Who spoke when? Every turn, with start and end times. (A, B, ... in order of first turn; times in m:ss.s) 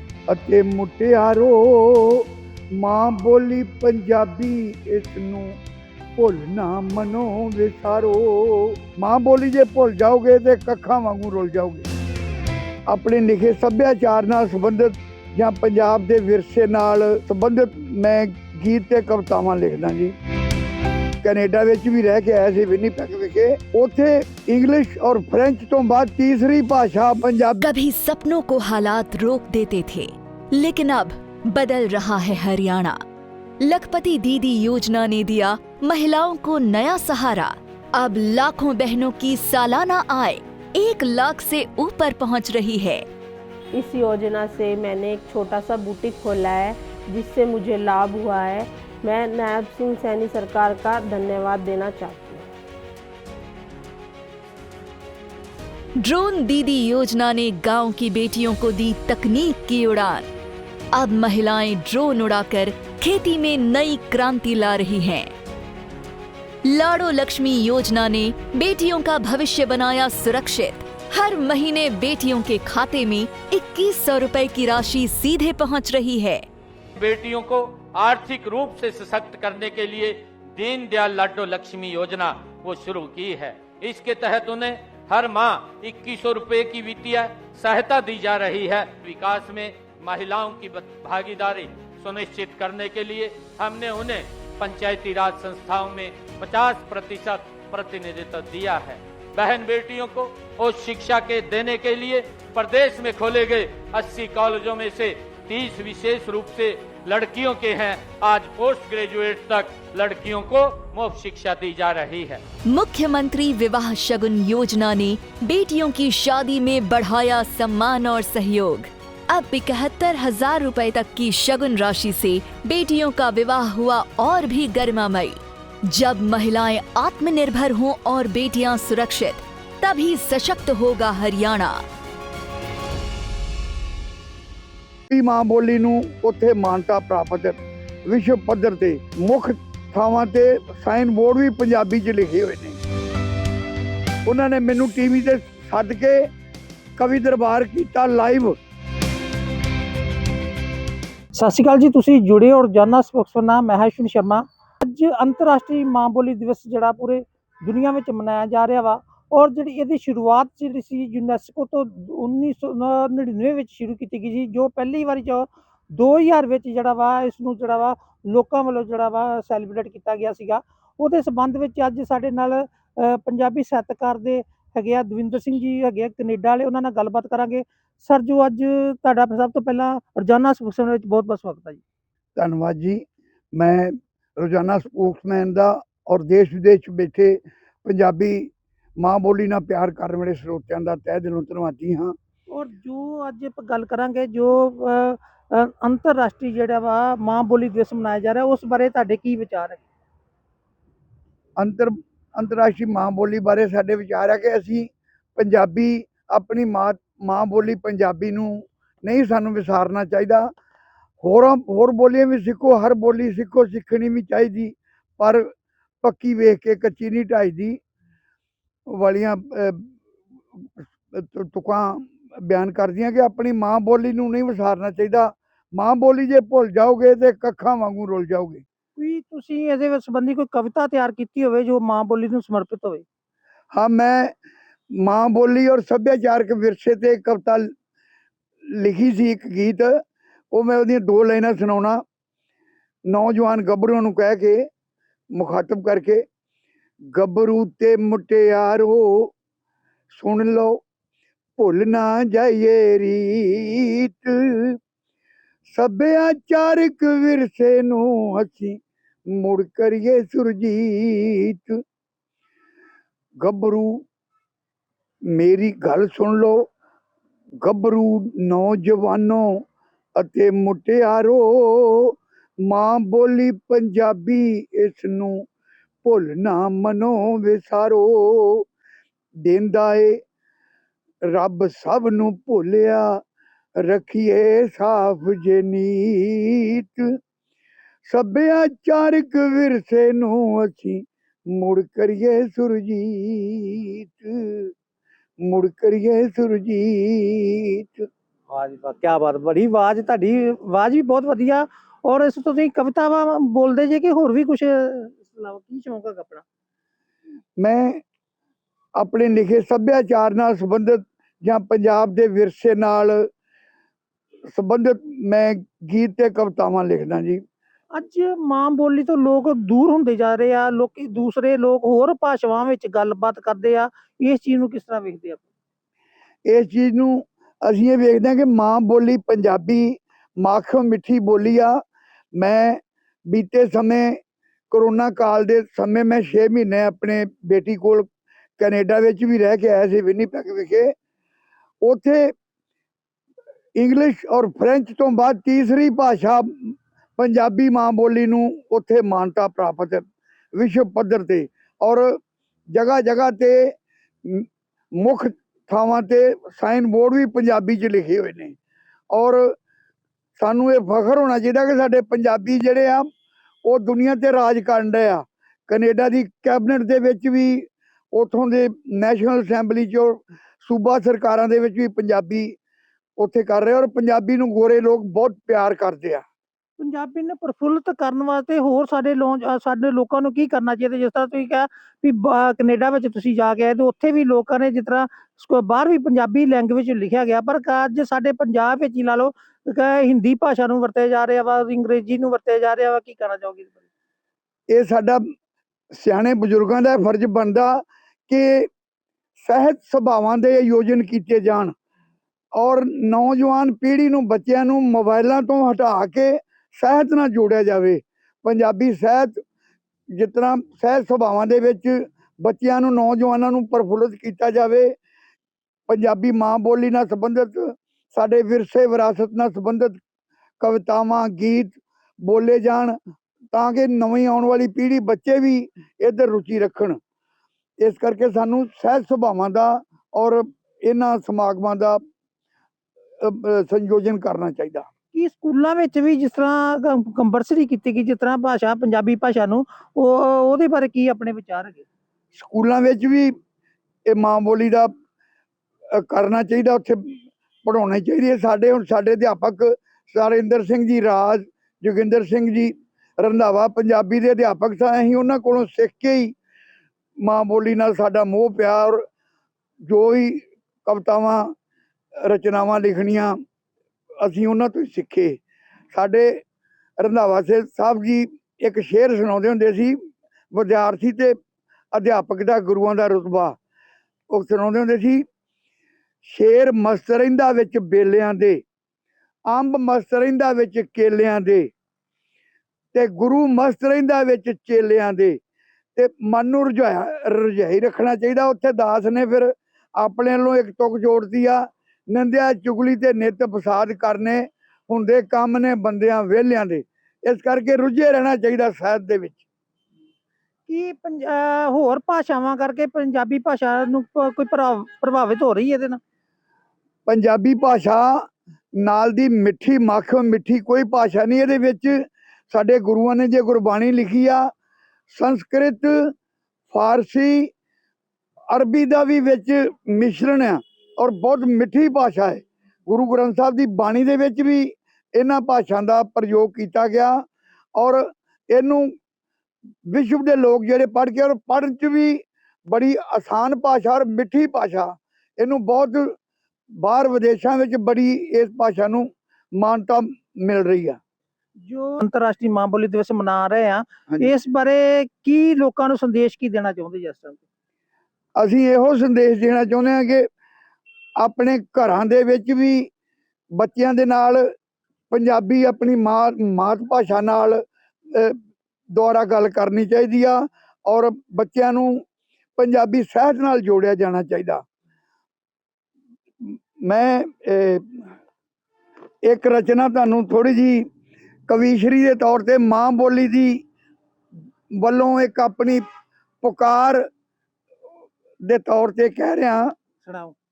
0:00.3-0:02.2 A
0:02.8-0:05.6 A
0:06.2-0:11.9 A
0:12.9-0:20.1 A
0:21.2-0:27.6 A
0:27.6-0:33.0 B
0:33.6-0:43.0 B
0:43.8-0:52.5 C
0:56.0-1:00.3 B
1:00.9-1:05.3 B
1:06.6-1:16.4 B
1:17.0-1:52.4 D
1:52.7-2:11.8 B
2:15.1-2:22.8 A
2:24.2-2:26.3 A
2:27.0-2:28.6 A
2:31.3-3:01.8 E
3:02.4-3:03.0 A
3:03.6-3:12.2 A
3:12.5-3:19.8 E
3:21.6-3:30.5 A
3:31.2-3:35.5 A
3:36.0-3:37.8 A
3:38.9-3:39.9 A
3:40.8-3:48.6 A
3:49.0-3:53.0 E
3:53.7-3:54.3 A
3:55.0-3:57.7 A
3:58.7-3:59.9 A
4:00.5-4:02.0 A
4:03.1-4:04.6 A
4:05.4-4:06.2 A
4:07.1-4:09.3 A
4:10.1-4:10.8 A
4:11.6-4:14.8 A
4:15.7-4:18.8 A
4:19.4-4:21.8 A
4:23.4-4:24.0 A
4:25.4-4:26.6 A
4:27.6-4:29.5 A
4:30.2-4:32.1 A
4:32.7-4:35.4 A
4:36.0-4:38.6 A
4:39.4-4:40.2 A
4:41.3-4:43.2 A
4:43.9-4:47.1 A
4:48.1-4:54.7 A
4:55.4-4:58.1 A
4:58.5-5:06.4 E
5:07.6-5:08.0 A
5:09.0-5:13.3 A
5:14.5-5:17.4 A
5:17.9-5:25.5 E
5:26.5-5:31.8 A
5:32.4-5:34.2 A
5:34.7-5:38.1 A
5:38.6-5:40.9 A
5:41.8-5:42.3 A
5:43.8-5:50.0 A
5:50.6-5:52.2 A
5:52.7-5:53.7 A
5:55.0-5:58.6 A
5:59.1-5:59.5 A
6:00.4-6:03.1 A
6:03.6-6:12.6 A
6:13.2-6:16.2 A
6:16.8-6:33.8 E
6:34.7-6:35.2 A
6:35.9-6:38.7 A
6:39.4-6:41.7 A
6:42.6-6:49.4 A
6:50.2-6:54.9 A
6:55.9-7:00.0 A
7:00.6-7:03.0 A
7:03.5-7:07.0 A
7:07.8-7:12.0 A
7:13.2-7:14.9 A
7:15.1-7:21.8 E
7:22.3-7:23.3 A
7:24.1-7:24.9 A
7:26.0-7:27.0 A
7:27.6-7:36.4 A
7:37.2-7:39.0 A
7:39.9-7:41.5 A
7:42.3-7:43.4 A
7:44.2-7:45.4 A
7:45.9-7:46.4 A
7:47.0-7:50.0 A
7:50.5-7:51.3 A
7:51.9-7:53.6 A
7:54.3-7:55.2 A
7:56.2-7:58.6 A
7:59.5-8:01.7 A
8:02.9-8:05.4 A
8:06.0-8:19.4 A
8:20.7-8:26.0 E
8:27.1-8:28.2 A
8:28.8-8:34.5 A
8:35.1-8:36.1 A
8:36.7-8:37.5 A
8:38.5-8:47.2 A
8:47.8-8:48.9 A
8:49.9-8:56.1 A
8:56.8-9:01.0 A
9:01.6-9:07.4 E
9:08.4-9:10.3 A
9:11.2-9:12.9 A
9:13.6-9:14.5 A
9:15.1-9:17.6 A
9:18.9-9:22.0 A
9:22.6-9:24.6 A
9:26.4-9:28.0 A
9:29.2-9:30.9 A
9:31.5-9:33.6 A
9:34.8-9:35.8 A
9:36.4-9:37.1 A
9:38.5-9:39.7 A
9:40.0-9:40.4 E